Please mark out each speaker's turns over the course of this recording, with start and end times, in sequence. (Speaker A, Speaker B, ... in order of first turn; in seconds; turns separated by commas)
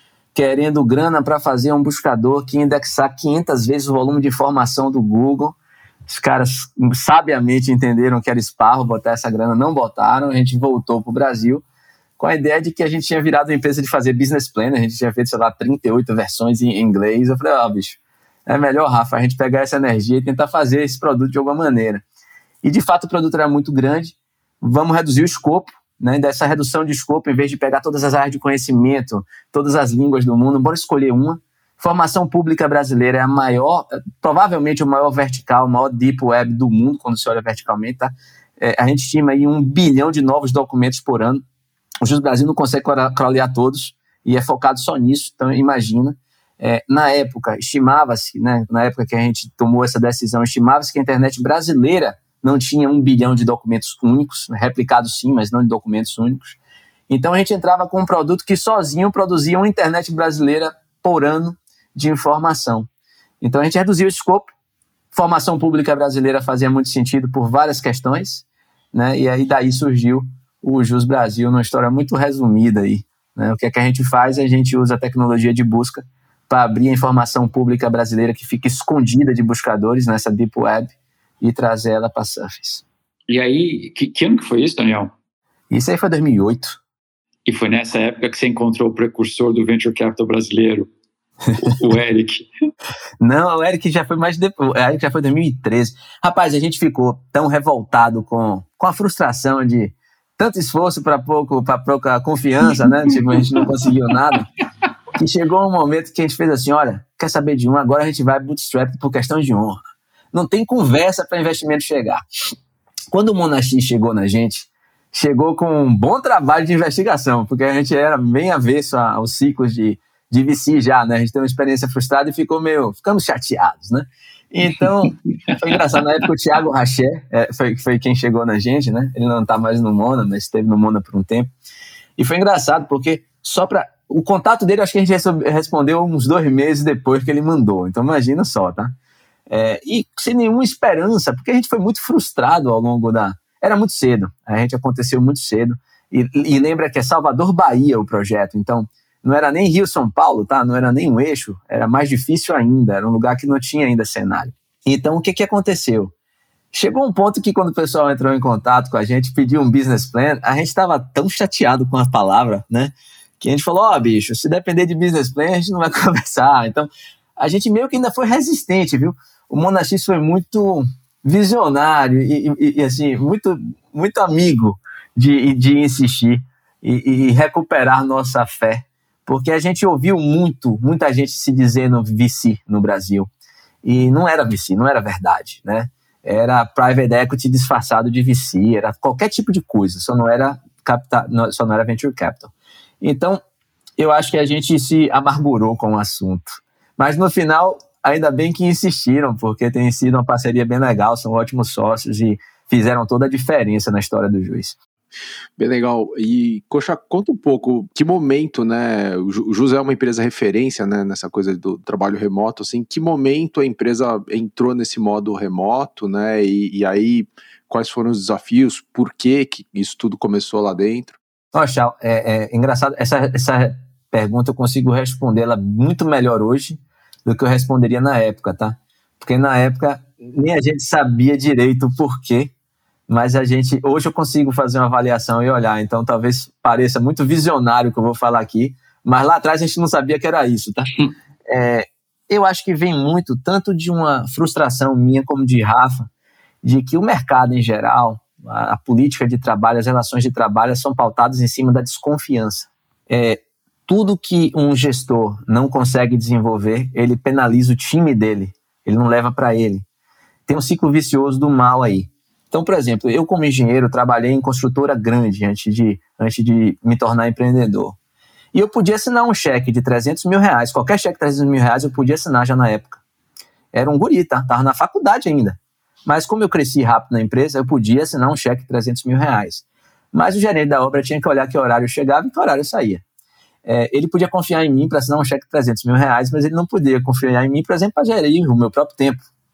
Speaker A: 0.3-11.6, Speaker A: 12.2-22.0, Speaker A: 22.6-41.4, Speaker A: 42.0-56.6, Speaker A: 57.1-62.9, Speaker A: 63.4-64.5, Speaker A: 65.1-82.8, Speaker B: 83.3-85.1, Speaker A: 85.7-86.8, Speaker B: 87.5-90.9, Speaker B: 91.6-92.5, Speaker A: 93.2-104.5, Speaker B: 102.9-103.6, Speaker A: 105.1-109.8, Speaker A: 110.3-112.2, Speaker A: 113.1-131.5, Speaker B: 125.5-125.8, Speaker A: 132.2-138.9, Speaker A: 139.5-156.1, Speaker A: 156.7-183.3, Speaker A: 183.8-193.4, Speaker A: 194.0-204.8, Speaker C: 205.6-221.2, Speaker A: 221.5-232.5, Speaker A: 233.1-240.9, Speaker A: 241.5-246.1, Speaker A: 246.6-259.8, Speaker A: 260.5-268.0, Speaker A: 268.5-273.0, Speaker A: 273.7-283.0, Speaker A: 283.6-289.3